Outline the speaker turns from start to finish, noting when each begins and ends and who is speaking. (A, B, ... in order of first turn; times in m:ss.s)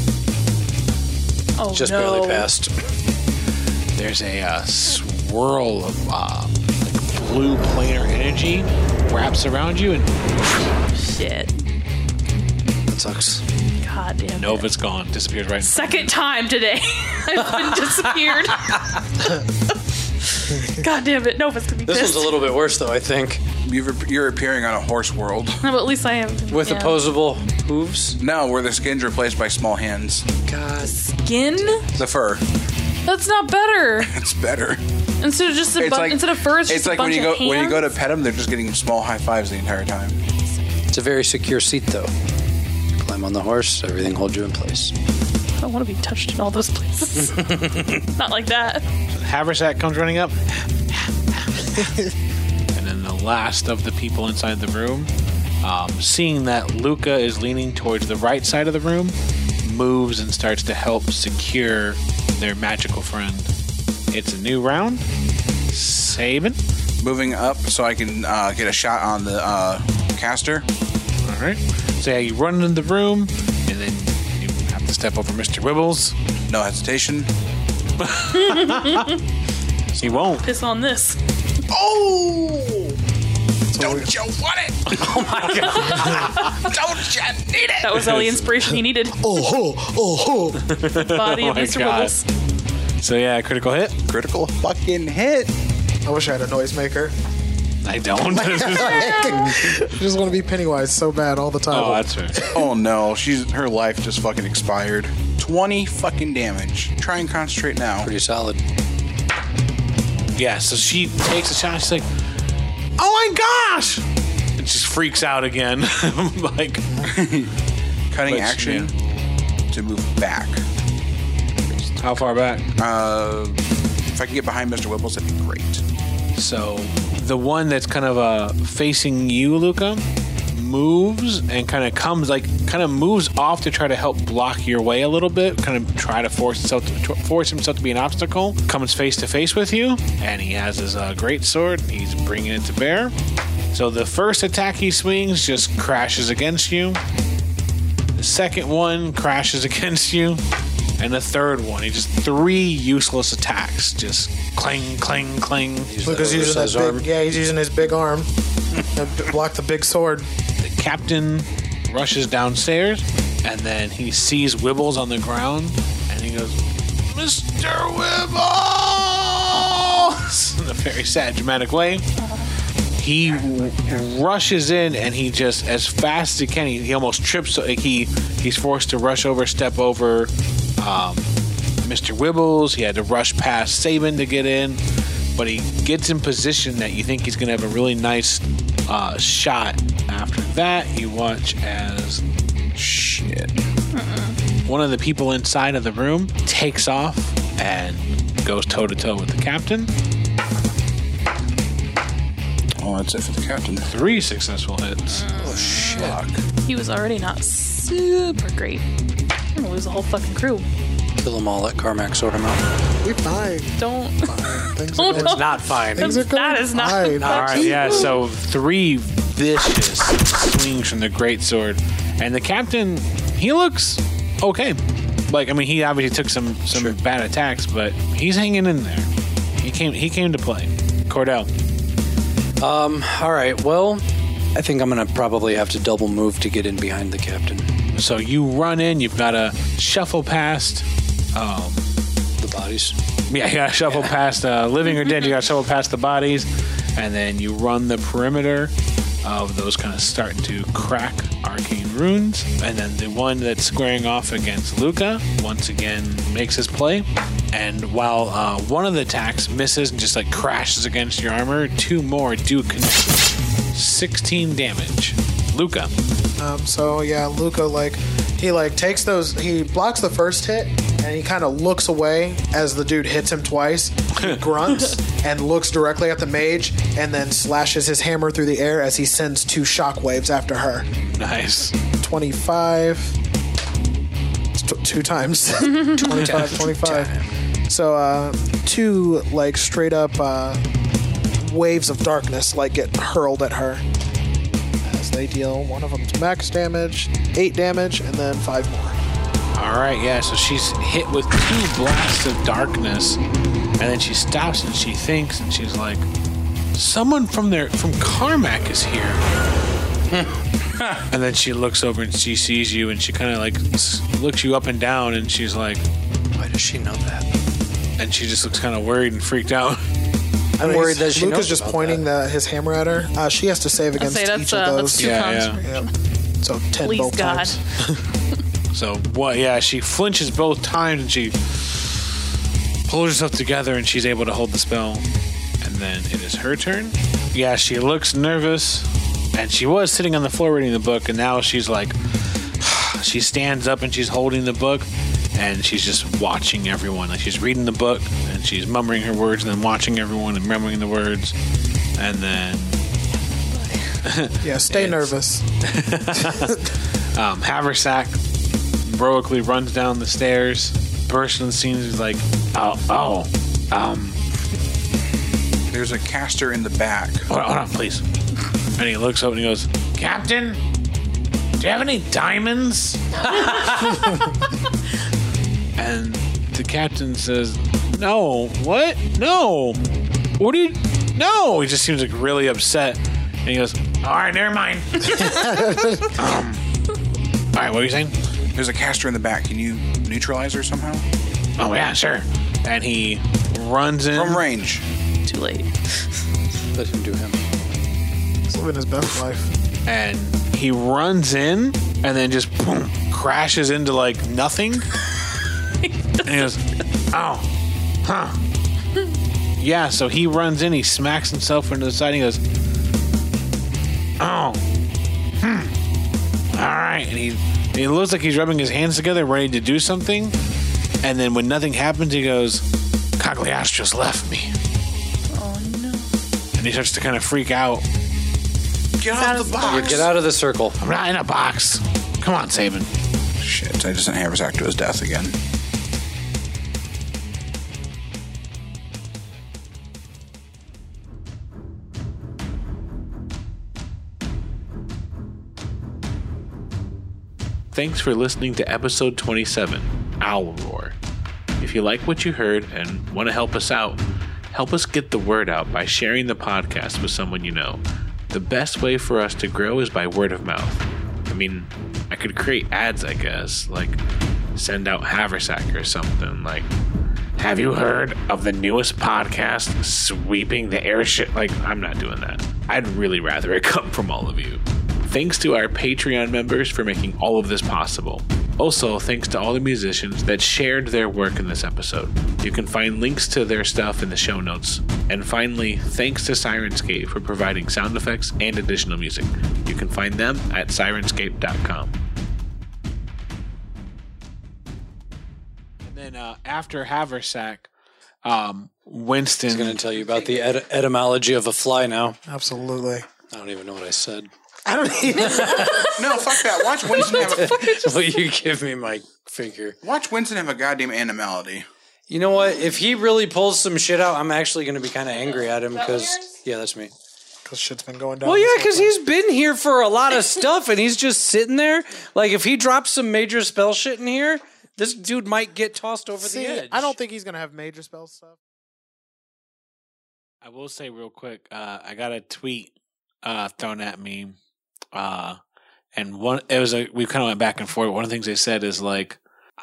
0:01.6-0:02.5 A
0:01.7-0:02.7 B
0:03.9-0:10.3 C
0:10.9-0:11.5 A
0:12.9-0:13.4 B
0:13.8-0:14.7 A
0:14.4-0:16.1 C
0:15.6-0:19.0 A
0:17.4-0:19.0 B
0:20.3-0:22.4 A
0:21.8-0:23.4 B
0:23.6-0:25.6 D
0:25.6-0:27.0 A
0:26.5-0:28.2 B
0:28.2-0:30.3 D
0:30.4-0:30.9 B
0:30.8-0:31.8 A
0:31.9-0:32.4 D
0:33.0-0:34.1 A
0:34.0-0:34.8 D
0:35.2-0:37.9 A
0:35.8-0:40.2 D
0:40.9-0:42.1 B
0:43.0-0:44.9 B
0:45.6-0:48.8 A
0:47.3-0:48.0 B
0:49.1-0:51.9 C
0:52.7-1:03.5 C
1:04.1-1:05.1 C
1:05.7-1:06.6 C
1:07.0-1:10.7 D
1:11.2-1:16.2 C
1:16.5-1:17.3 D
1:18.0-1:19.1 C
1:18.4-1:19.1 A
1:20.0-1:20.5 C
1:20.3-1:21.2 A
1:21.7-1:23.0 D
1:23.7-1:24.1 E
1:23.8-1:28.3 D
1:25.0-1:26.3 B
1:25.4-1:26.6 A
1:27.8-1:29.3 A
1:29.1-1:30.7 E
1:30.6-1:32.1 C
1:30.9-1:32.2 A
1:33.0-1:34.0 C
1:34.0-1:35.5 D
1:36.0-1:37.1 E
1:37.8-1:39.5 C
1:38.3-1:42.7 E
1:41.7-1:42.4 C
1:42.5-1:48.1 D
1:48.0-1:48.6 B
1:50.4-1:52.1 C
1:53.0-1:57.1 C
1:57.0-1:57.5 D
1:58.1-1:58.9 D
1:58.2-1:58.9 C
1:59.7-2:00.6 D
2:02.0-2:02.7 C
2:02.8-2:05.8 D
2:06.3-2:23.1 C
2:23.7-2:27.0 C
2:28.2-2:30.4 C
2:31.0-2:35.9 C
2:35.8-2:37.0 B
2:36.0-2:38.3 E
2:38.9-2:40.3 E
2:40.6-2:52.0 C
2:52.2-2:52.5 A
2:53.0-3:01.3 C
3:01.8-3:04.8 C
3:05.4-3:12.2 C
3:12.7-3:13.6 D
3:13.9-3:14.4 A
3:14.6-3:19.9 C
3:22.8-3:23.9 D
3:23.8-3:25.3 C
3:25.1-3:28.8 A
3:25.4-3:26.4 D
3:29.5-3:30.6 A
3:31.2-3:32.7 B
3:33.0-3:38.1 E
3:33.8-3:38.1 A
3:35.1-3:36.2 B
3:37.2-3:37.8 B
3:37.2-3:51.5 C
3:52.6-3:57.7 B
3:57.9-4:01.9 C
4:02.4-4:03.0 B
4:03.3-4:25.9 C
4:26.4-4:40.9 E
4:34.2-4:34.4 C
4:41.1-4:41.8 C
4:42.0-4:43.2 E
4:44.5-4:47.1 E
4:46.0-4:47.2 B
4:47.7-4:50.6 E
4:51.4-4:53.8 E
4:54.8-4:59.0 E
4:59.5-5:03.2 C
5:03.8-5:06.1 C
5:06.7-5:09.2 C
5:10.8-5:11.0 D
5:11.1-5:15.8 C
5:16.4-5:17.3 B
5:18.0-5:19.9 C
5:20.6-5:22.0 B
5:20.6-5:25.9 E
5:24.0-5:25.9 A
5:25.0-5:25.6 C
5:26.4-5:28.0 E
5:26.8-5:27.6 A
5:28.7-5:32.1 C
5:32.8-5:35.1 C
5:35.6-5:51.4 C
5:52.0-5:52.8 C
5:53.5-5:53.8 A
5:54.0-5:58.2 C
5:54.4-5:55.4 E
5:56.2-5:56.6 E
5:58.8-6:04.2 C
6:05.7-6:07.3 D
6:07.3-6:08.0 C
6:08.8-6:10.6 C
6:11.6-6:14.2 C
6:13.3-6:13.7 B
6:15.8-6:19.8 C
6:20.4-6:25.5 C
6:25.2-6:26.1 E
6:26.1-6:26.6 C
6:27.5-6:28.1 C
6:28.5-6:31.1 D
6:31.6-6:34.5 C
6:34.1-6:34.8 D
6:35.2-6:36.0 A
6:36.7-6:37.5 B
6:38.5-6:39.5 E
6:39.8-6:44.9 C
6:46.2-6:47.5 C
6:48.0-6:48.4 C
6:49.6-6:52.4 C
6:54.2-6:54.7 C
6:55.4-6:55.7 C
6:56.5-7:00.4 C
7:01.0-7:02.6 C
7:03.2-7:04.5 C
7:05.3-7:06.1 A
7:06.6-7:07.8 C
7:09.0-7:10.1 D
7:09.1-7:10.0 A
7:09.6-7:10.8 B
7:10.8-7:12.9 C
7:13.4-7:15.4 D
7:27.7-7:31.0 C
7:31.6-7:44.0 C
7:44.5-7:46.7 C
7:47.4-8:12.0 C
8:15.8-8:17.7 C
8:18.2-8:19.8 C
8:19.5-8:22.2 B
8:22.3-8:23.0 E
8:23.3-8:24.3 B
8:24.6-8:26.0 E
8:25.2-8:25.9 B
8:25.5-8:28.2 A
8:25.9-8:27.8 D
8:27.0-8:29.8 B
8:29.8-8:31.7 D
8:32.1-8:36.9 B
8:35.7-8:36.3 A
8:37.4-8:38.9 E
8:38.2-8:46.7 B
8:46.2-8:48.4 E
8:46.3-8:46.9 C
8:50.4-8:54.4 C
8:54.9-8:55.4 C
8:55.9-8:59.2 C